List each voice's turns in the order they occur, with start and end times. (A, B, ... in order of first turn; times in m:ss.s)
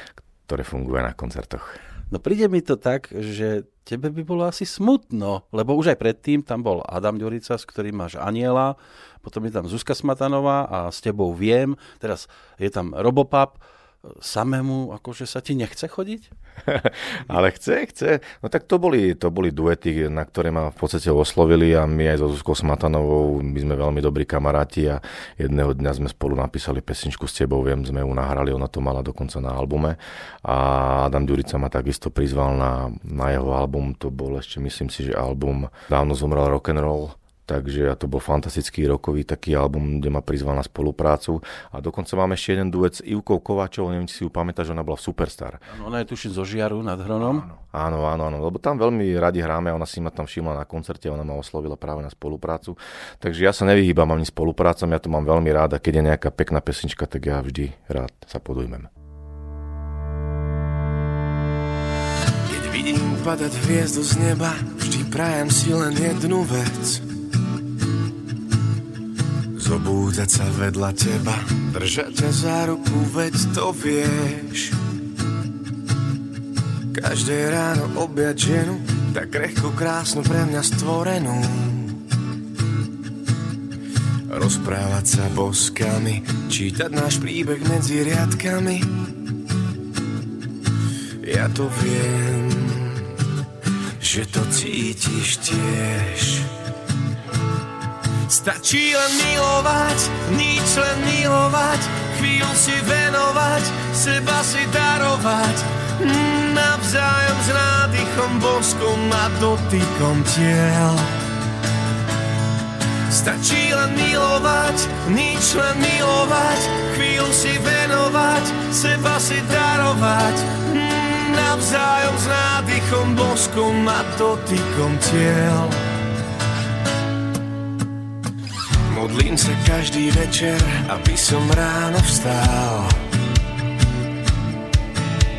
0:00.5-0:01.8 A
0:02.1-0:16.3 B
0:16.7-0:45.6 A
0:45.7-0:47.5 B
0:47.2-0:58.9 A
1:02.4-1:03.3 A
1:02.8-1:06.9 C
1:04.4-1:05.2 A
1:05.8-1:06.1 A
1:09.5-1:14.8 C
1:16.9-1:22.0 C
1:24.3-1:28.9 C
1:31.2-1:33.2 C
1:34.0-1:36.5 C
1:38.3-1:51.1 C
1:53.1-2:05.8 C
2:08.8-2:13.0 C